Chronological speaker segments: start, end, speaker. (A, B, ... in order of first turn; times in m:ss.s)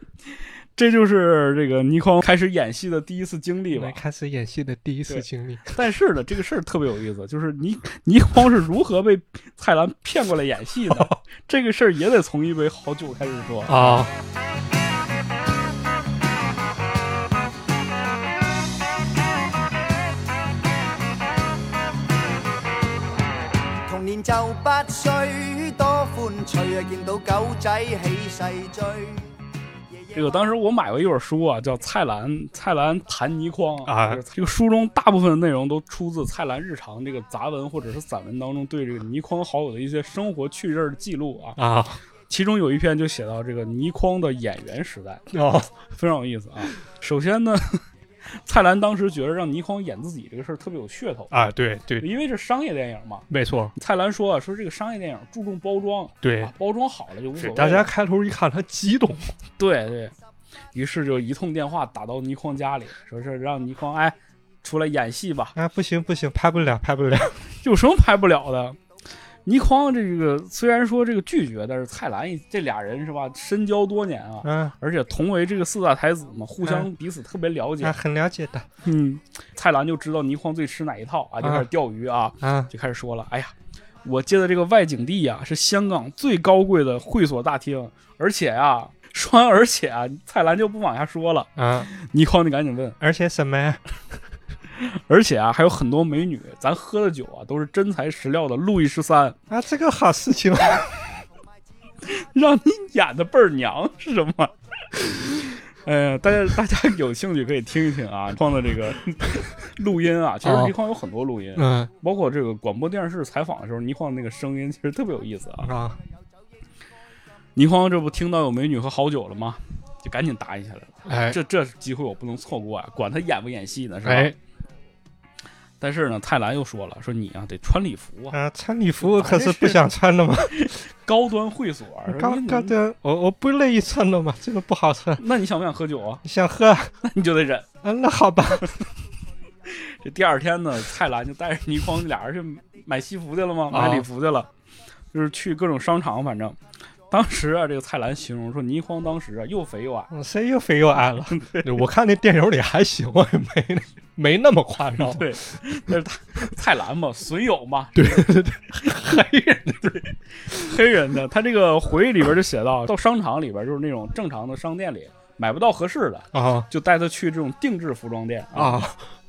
0:00.2-0:04.0 A
0:03.8-0:05.8 B
0:05.1-0:14.0 A
0:10.9-0:11.2 B
0:13.7-0:14.1 B
0:23.9-0:29.2 C
0:30.1-0:41.6 A
0:33.9-0:34.2 B
0:41.6-0:42.0 B
0:42.3-0:45.3 A
0:45.3-0:45.7 B
0:45.9-0:47.8 A
0:48.4-0:51.4 A
0:51.3-0:52.1 B
0:52.0-0:57.9 A
0:53.3-0:53.7 B
0:56.2-0:56.5 B
0:57.4-0:59.3 B
0:59.6-1:00.1 A
1:00.7-1:05.6 A
1:05.6-1:07.4 B
1:07.6-1:08.8 A
1:09.5-1:18.0 A
1:14.4-1:14.8 B
1:16.6-1:16.9 B
1:17.8-1:18.7 B
1:18.8-1:23.5 A
1:21.4-1:21.7 B
1:22.4-1:22.7 B
1:24.0-1:33.0 A
1:31.6-1:31.9 B
1:33.0-1:33.8 B
1:34.8-1:39.4 A
1:39.5-1:40.8 B
1:42.0-1:55.7 A
1:50.4-1:50.8 B
1:51.6-1:51.9 B
1:55.6-1:56.0 B
1:57.6-2:04.4 A
2:01.1-2:01.4 B
2:04.0-2:04.4 B
2:05.8-2:08.4 A
2:08.3-2:10.7 B
2:09.0-2:09.8 A
2:10.5-2:12.8 A
2:12.1-2:15.2 B
2:15.2-2:16.2 A
2:16.2-2:17.0 B
2:17.0-2:17.7 A
2:17.8-2:18.7 B
2:19.7-2:24.5 A
2:23.7-2:24.1 B
2:25.1-2:26.6 A
2:27.1-2:30.1 A
2:30.1-2:35.6 B
2:31.3-2:31.8 A
2:35.0-2:48.9 A
2:38.0-2:40.7 B
2:46.3-2:46.7 B
2:48.5-2:49.0 B